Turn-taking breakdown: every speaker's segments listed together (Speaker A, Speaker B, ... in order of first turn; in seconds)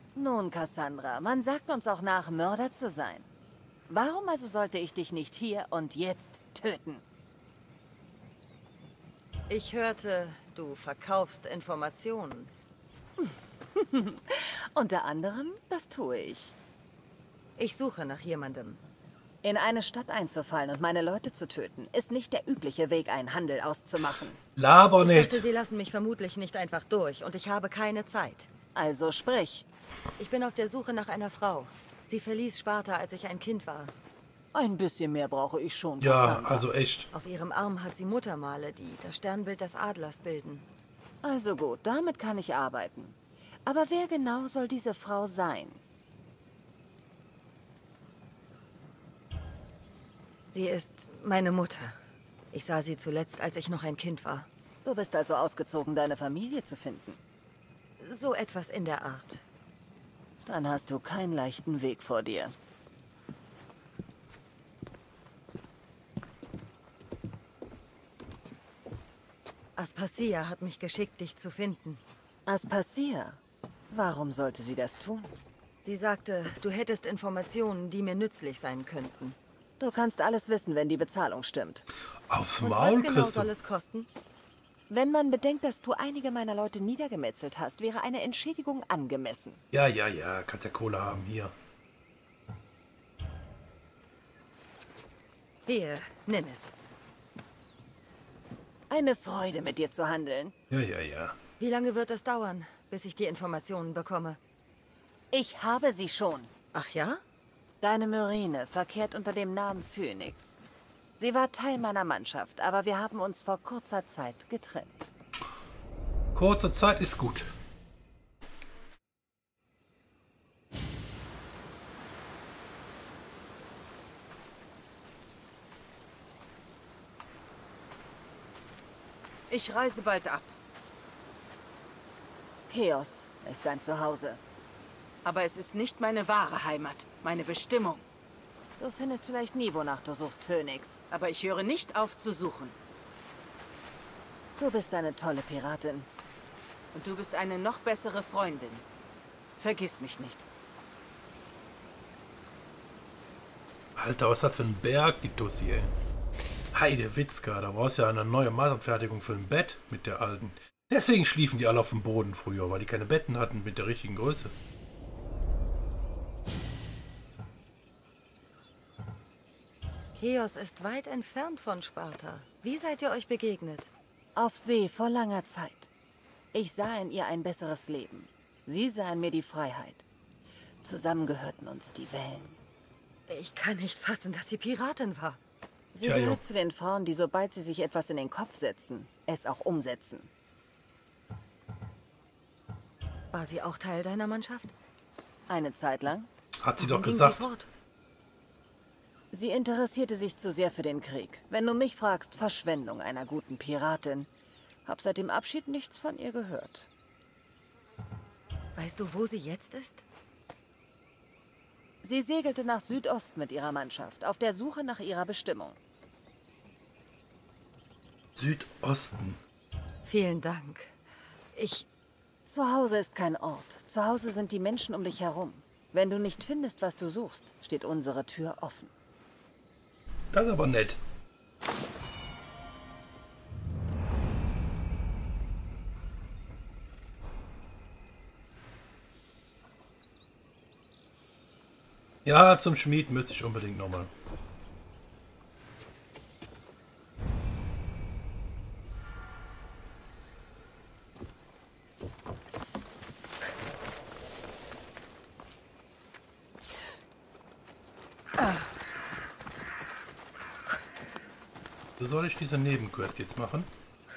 Speaker A: 0.1-3.3, 3.9-7.0, 13.2-16.5, 19.4-24.4, 28.7-29.7, 34.5-36.6, 41.2-45.8, 54.8-57.2, 60.4-62.5, 72.5-75.4, 79.8-81.8, 84.9-89.6, 98.9-100.5, 105.3-106.5, 107.8-110.6, 111.2-115.1, 132.7-134.4, 138.8-141.0, 144.6-146.1, 174.3-175.9, 176.5-180.0, 180.8-182.6, 185.9-190.3, 195.5-196.3, 199.3-204.3, 204.8-206.9, 212.0-215.8, 222.4-228.9
Speaker B: 9.5-12.5, 17.6-18.8, 25.0-28.5, 30.2-33.9, 37.1-40.6, 50.5-52.0, 52.5-54.5, 58.0-59.4, 69.8-72.0, 75.8-79.4, 82.6-84.1, 95.7-96.7, 101.6-104.4, 106.7-107.2, 170.1-173.9, 183.3-185.4, 193.3-194.7, 196.8-197.7, 208.8-210.0, 220.0-221.0, 221.5-221.9
Speaker C: 24.6-25.4, 36.0-37.1, 82.3-83.5, 89.7-91.5, 100.7-101.4, 116.3-117.5, 153.9-155.9, 156.7-164.5, 186.0-186.4, 196.6-197.5, 218.3-219.4, 230.3-231.0, 242.2-244.1, 262.0-263.7
Speaker D: 129.5-130.6, 135.2-138.1, 141.1-142.8, 146.9-148.8, 149.6-150.4